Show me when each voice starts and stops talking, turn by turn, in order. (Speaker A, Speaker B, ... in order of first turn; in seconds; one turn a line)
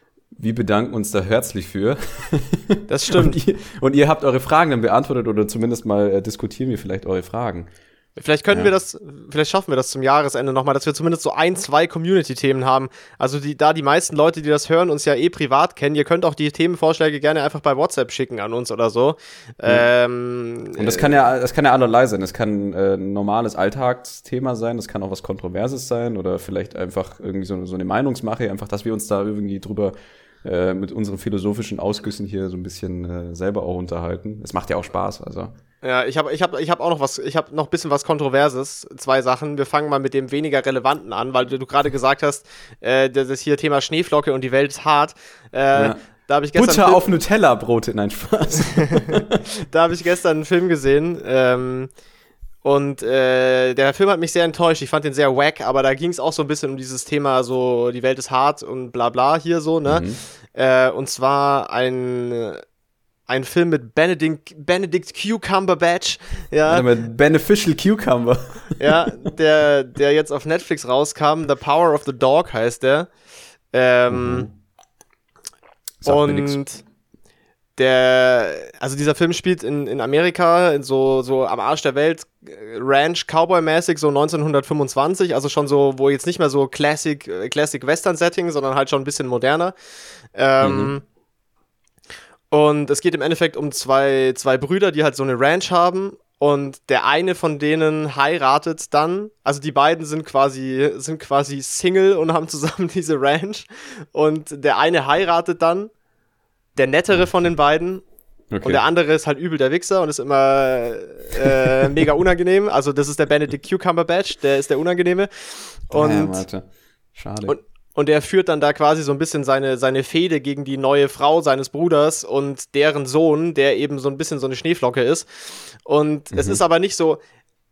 Speaker A: 0.3-7.7
Speaker B: 2.9-3.4
Speaker B: 8.2-21.1
Speaker A: 20.8-35.5
Speaker B: 35.8-47.1
Speaker A: 45.7-46.0
Speaker A: 46.5-49.4
Speaker B: 48.8-51.9
Speaker B: 52.6-62.6
Speaker A: 59.9-60.2
Speaker B: 63.3-66.9
Speaker A: 66.7-68.8
Speaker B: 68.8-73.1
Speaker B: 73.7-74.5
Speaker A: 74.1-74.5
Speaker A: 76.0-76.6
Speaker B: 76.1-76.8
Speaker B: 77.8-89.7
Speaker B: 90.3-91.0
Speaker A: 90.6-91.0
Speaker B: 92.5-105.9
Speaker B: 106.8-108.0
Speaker A: 108.5-108.8
Speaker B: 108.6-115.3
Speaker B: 115.9-116.4
Speaker A: 115.9-117.6
Speaker B: 117.5-125.3
Speaker B: 125.8-127.2
Speaker A: 126.3-126.6